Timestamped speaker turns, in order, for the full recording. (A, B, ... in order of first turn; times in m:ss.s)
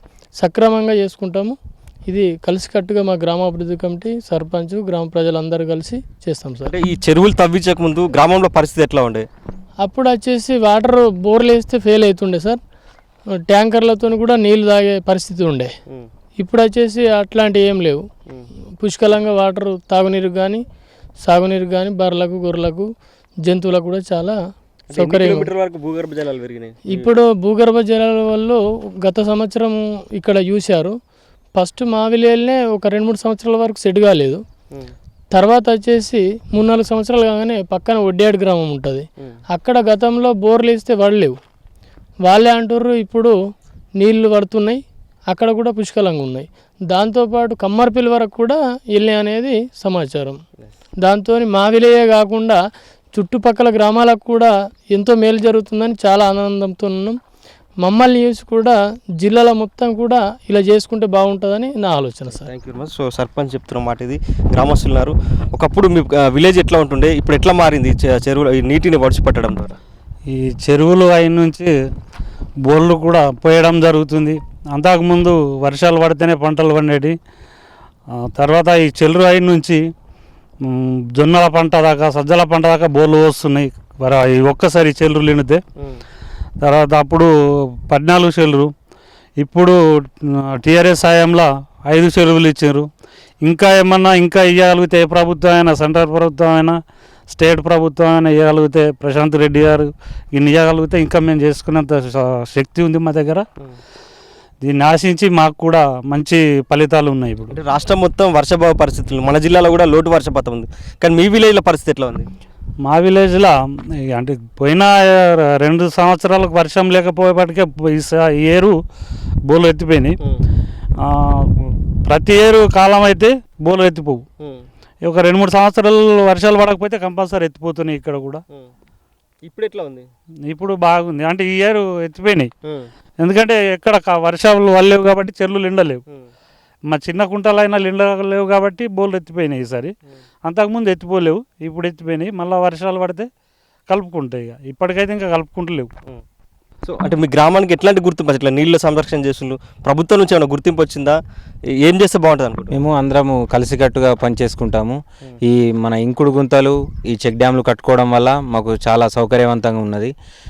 0:00.4-0:06.7 A
0:06.7-0:09.3 B
0:09.8-0:12.6 A
0:13.4-0:15.7 A
0:16.4-0:18.0 A
0:18.8-0:20.6 A
0:21.2-0:22.9 A
0:23.4-0:24.4 A
0:24.9-0:27.1 B
0:24.9-0:25.5 A
0:26.8-0:30.9 A
0:31.6-0:34.4 A
0:35.3-0:41.4 A
0:42.2-0:43.3 A
0:44.0-0:50.4 A
0:51.0-0:52.6 A
0:53.1-0:57.2 A
0:57.8-1:02.5 A
1:02.4-1:09.8 B
1:10.3-1:11.7 C
1:12.6-1:17.2 C
1:18.4-1:19.8 C
1:20.7-1:25.6 C
1:26.6-1:27.3 C
1:27.9-1:28.7 C
1:29.4-1:29.8 C
1:30.6-1:32.9 C
1:33.4-1:36.8 C
1:37.3-1:43.4 C
1:44.6-1:47.5 C
1:47.5-1:52.3 B
1:52.8-1:53.5 C
1:54.1-1:58.8 C
1:59.5-2:00.2 C
2:02.1-2:04.2 C
2:04.4-2:04.6 B
2:05.0-2:08.4 C
2:09.4-2:10.1 B
2:10.5-2:12.5 C
2:12.6-2:12.9 B
2:13.2-2:16.0 C
2:16.9-2:19.9 C
2:20.5-2:23.3 C
2:23.9-2:25.9 C
2:26.8-2:31.2 B
2:31.8-2:32.7 B
2:32.7-2:40.1 D